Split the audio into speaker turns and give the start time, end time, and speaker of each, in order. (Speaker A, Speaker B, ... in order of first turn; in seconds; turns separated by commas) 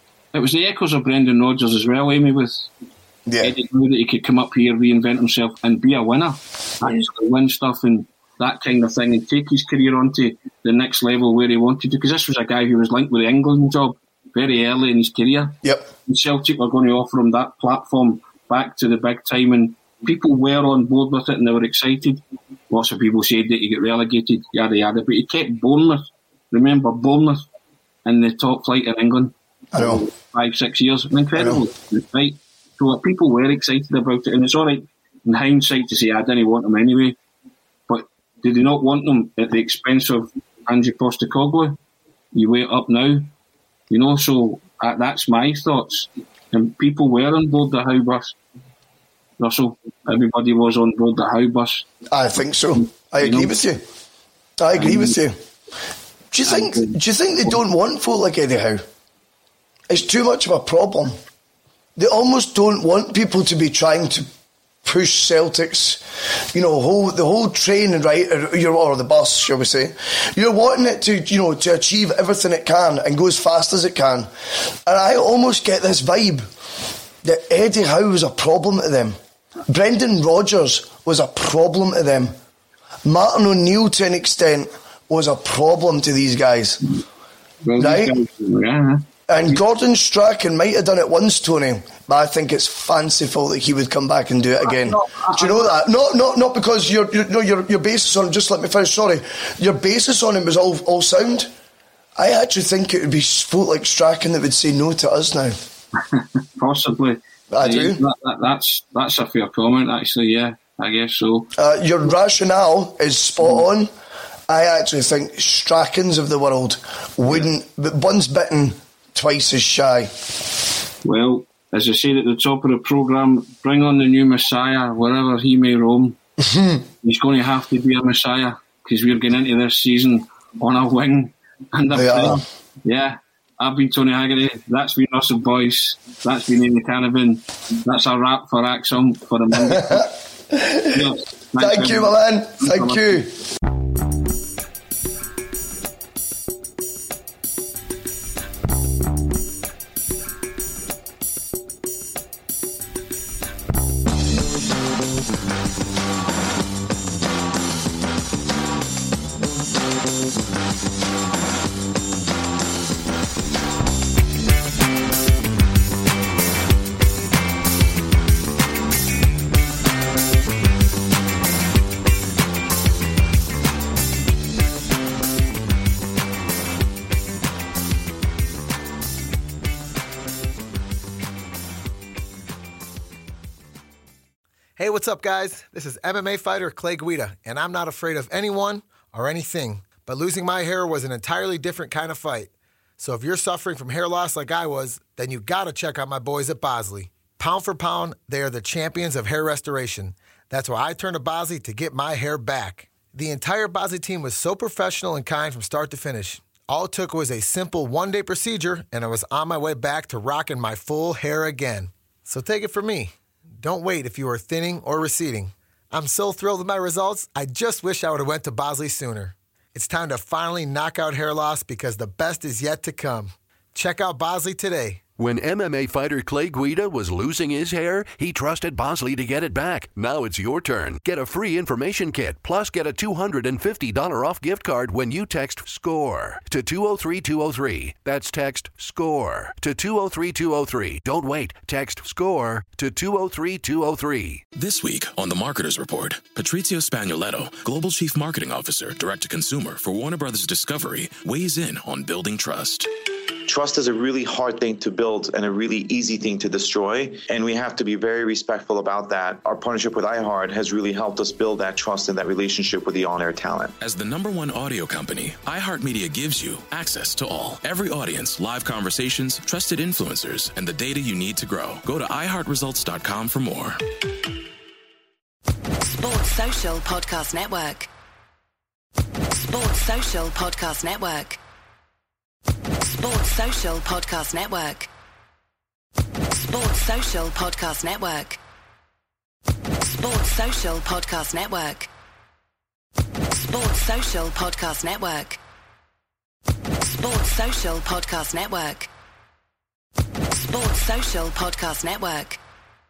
Speaker A: 0.3-2.7, Speaker B: 3.3-3.5, Speaker A: 3.4-15.6, Speaker B: 15.6-15.9, Speaker A: 16.1-27.4, Speaker A: 28.1-37.1, Speaker B: 29.7-30.0, Speaker B: 31.4-31.6, Speaker A: 37.9-41.8, Speaker A: 42.3-43.3, Speaker A: 43.9-48.4, Speaker A: 49.4-51.8, Speaker B: 52.1-53.8, Speaker A: 53.2-53.5, Speaker B: 54.6-55.3, Speaker A: 54.8-55.2, Speaker B: 56.3-58.8, Speaker A: 56.5-57.6, Speaker B: 59.9-61.1, Speaker B: 62.0-64.3, Speaker B: 64.8-66.0, Speaker B: 66.5-74.3, Speaker B: 74.9-76.5, Speaker B: 77.2-79.2, Speaker B: 79.7-82.3, Speaker B: 83.0-86.8, Speaker A: 87.6-89.6, Speaker B: 87.8-88.1, Speaker B: 89.3-101.5, Speaker A: 94.6-95.7, Speaker B: 102.2-105.5, Speaker A: 106.1-111.5, Speaker B: 107.5-108.0, Speaker B: 111.5-113.9, Speaker B: 114.5-120.1, Speaker A: 121.0-126.2, Speaker B: 126.4-126.8, Speaker A: 127.0-140.1, Speaker B: 131.9-132.4, Speaker B: 139.6-141.0, Speaker A: 140.9-143.2, Speaker B: 141.6-143.3, Speaker C: 184.8-225.1, Speaker D: 225.2-244.4, Speaker E: 244.6-252.9, Speaker F: 253.5-263.7, Speaker E: 263.8-273.8, Speaker G: 275.8-277.9, Speaker G: 279.3-281.4, Speaker G: 282.8-284.9, Speaker G: 286.3-288.4, Speaker G: 289.8-291.9, Speaker G: 293.3-295.4, Speaker G: 296.8-298.9, Speaker G: 300.3-302.4